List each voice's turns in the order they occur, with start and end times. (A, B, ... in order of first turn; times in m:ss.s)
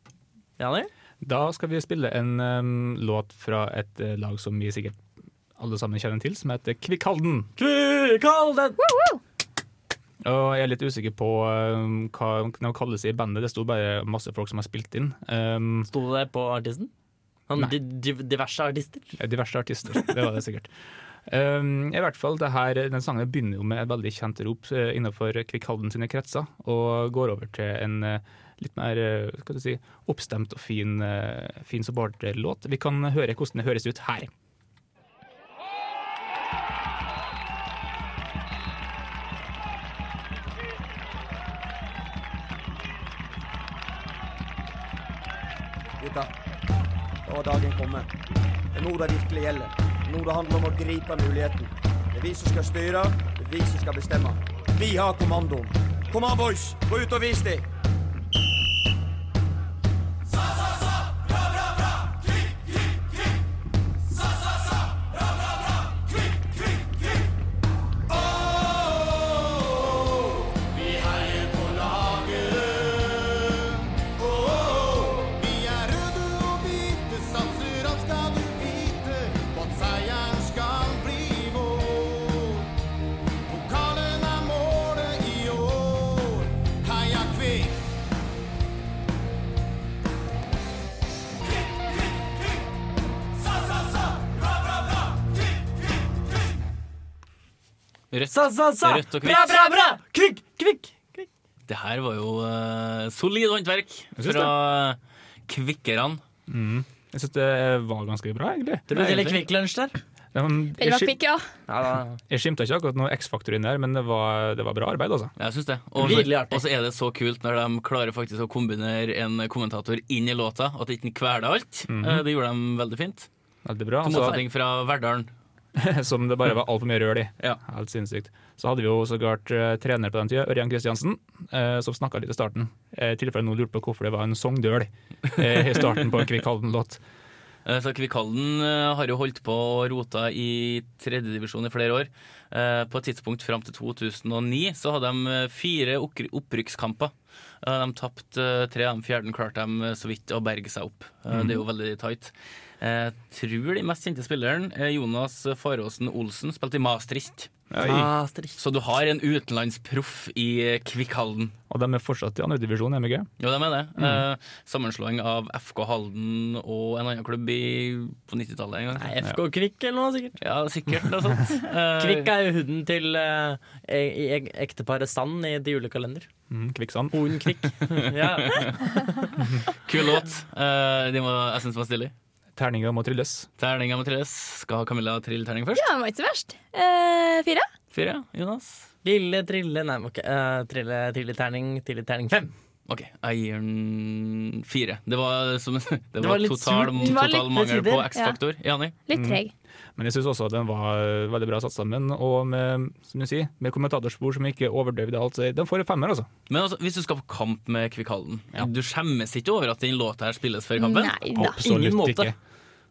0:00.6-0:00.9 A
0:01.2-0:05.0 B
0:05.6-0:07.5 B
0:07.6-0:08.8 A
0:08.8-0:09.2 C
0:10.2-0:15.9 B
0:15.9-0:16.9 A
0:17.5-0:19.2 A
0:19.2-0:20.7 B
0:21.3-0:34.3 B
0:46.0-0:46.3 D
0:47.2-0:48.1 D
0:48.7-0:57.6 D
1:08.3-1:22.7 E
1:23.4-1:27.8 E
1:38.1-1:39.6 F
1:38.3-1:41.3 A
1:41.7-1:46.2 F
1:44.2-1:44.5 B
1:46.5-1:49.2 B
1:48.9-1:50.0 A
1:49.0-1:49.3 F
1:50.3-1:51.2 B
1:50.8-1:51.4 C
1:51.7-1:52.2 A
1:52.3-1:55.3 B
1:55.4-2:03.3 F
1:56.0-1:56.6 A
2:01.9-2:02.2 B
2:03.6-2:04.4 B
2:04.0-2:05.3 F
2:05.8-2:17.0 B
2:17.6-2:37.5 F
2:31.3-2:31.6 B
2:37.7-2:38.1 B
2:37.8-2:38.5 A
2:38.6-2:41.5 F
2:41.7-2:43.3 B
2:43.4-2:49.1 F
2:44.0-2:44.2 B
2:49.0-2:50.4 A
2:50.4-2:52.3 F
2:52.0-2:56.3 A
2:56.5-2:57.3 B
2:57.1-2:58.7 A
2:58.1-2:58.7 F
2:59.8-3:02.1 F
3:02.6-3:03.5 B
3:03.6-3:05.8 F
3:05.7-3:07.7 C
3:07.9-3:08.9 F
3:09.0-3:12.5 A
3:12.9-3:18.9 F
3:16.2-3:18.0 A
3:17.0-3:17.5 C
3:18.1-3:18.4 C
3:19.1-3:19.5 C
3:19.1-3:19.4 B
3:20.0-3:26.3 B
3:26.5-3:31.2 F
3:30.8-3:31.6 C
3:31.3-3:32.4 B
3:31.6-3:32.3 A